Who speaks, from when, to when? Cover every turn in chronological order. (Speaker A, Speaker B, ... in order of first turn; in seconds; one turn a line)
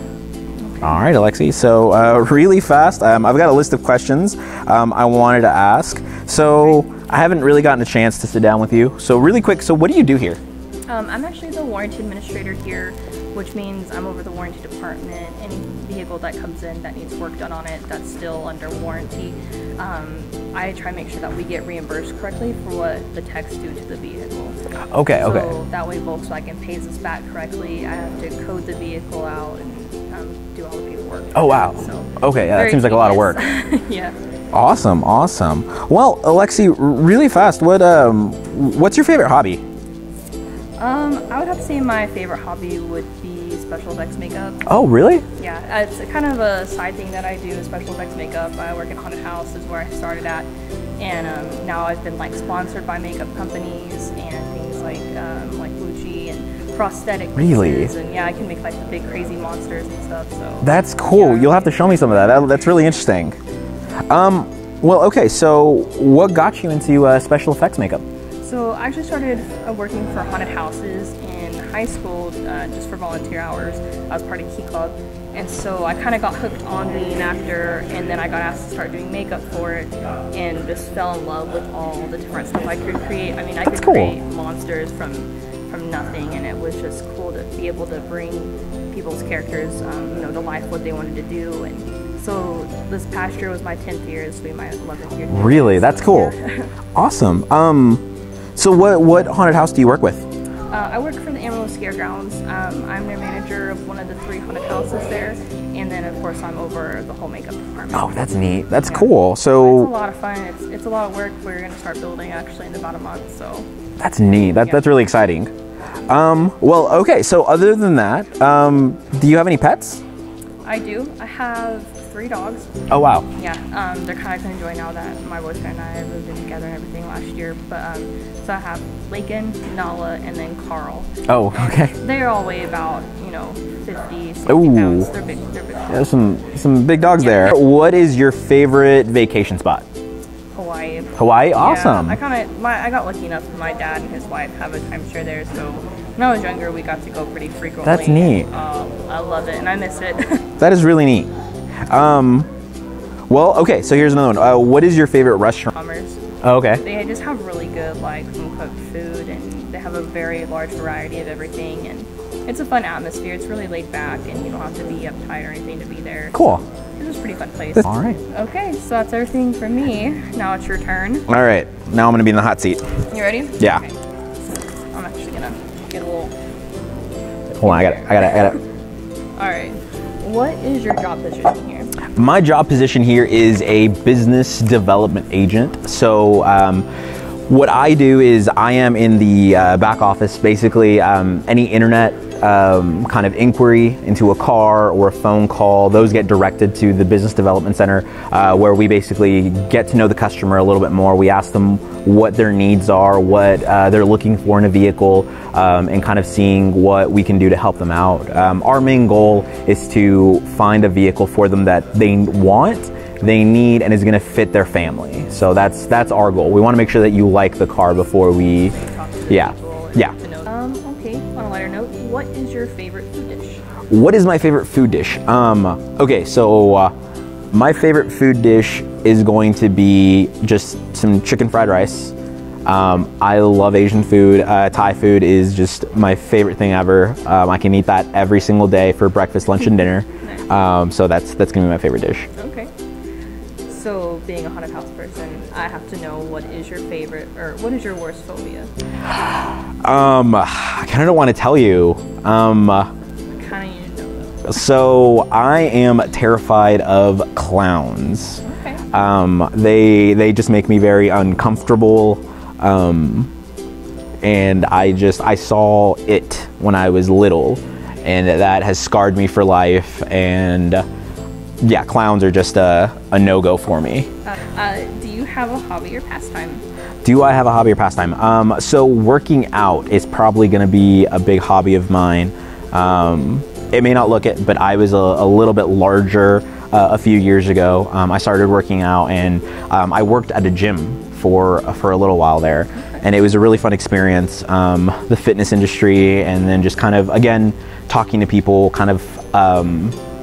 Speaker A: 0.7-1.1
Speaker B: 0.8-10.4
Speaker A: 10.9-24.6
Speaker B: 24.9-25.5
Speaker A: 25.1-34.2
Speaker B: 31.3-33.4
Speaker B: 34.5-39.6
Speaker A: 40.8-44.7
Speaker B: 44.7-45.2
Speaker A: 45.4-50.5
Speaker A: 51.0-62.5
Speaker B: 57.4-57.9
Speaker B: 60.6-63.4
Speaker B: 64.1-68.0
Speaker A: 68.4-96.7
Speaker B: 83.7-84.2
Speaker B: 95.3-96.3
Speaker B: 97.0-98.0
Speaker B: 98.6-100.3
Speaker A: 100.7-113.7
Speaker B: 107.9-109.9
Speaker B: 114.0-115.5
Speaker A: 114.4-114.9
Speaker B: 116.1-120.0
Speaker A: 120.6-122.7
Speaker B: 122.9-123.3
Speaker A: 123.3-136.1
Speaker B: 131.3-131.9
Speaker B: 134.5-135.1
Speaker B: 135.9-139.8
Speaker A: 137.2-137.6
Speaker A: 140.5-150.5
Speaker B: 141.2-142.2
Speaker B: 147.8-148.5
Speaker B: 150.6-151.3
Speaker B: 151.9-152.5
Speaker B: 153.3-155.7
Speaker A: 155.7-156.2
Speaker B: 156.4-156.8
Speaker A: 156.8-171.3
Speaker B: 166.3-166.6
Speaker B: 167.8-168.2
Speaker B: 171.3-173.0
Speaker A: 173.1-173.9
Speaker B: 173.6-173.8
Speaker A: 174.9-176.3
Speaker B: 177.5-178.6
Speaker A: 177.6-178.6
Speaker A: 179.4-181.9
Speaker B: 182.2-186.9
Speaker B: 187.5-218.7
Speaker A: 218.6-223.6
Speaker B: 219.3-220.2
Speaker B: 223.9-226.9
Speaker B: 227.5-232.2
Speaker B: 232.7-242.3
Speaker A: 242.4-242.7
Speaker A: 243.7-248.7
Speaker B: 249.7-252.9
Speaker A: 253.3-254.3
Speaker B: 254.4-263.3
Speaker A: 258.4-258.8
Speaker B: 264.2-270.9
Speaker B: 271.6-274.1
Speaker A: 274.2-276.6
Speaker B: 277.0-300.0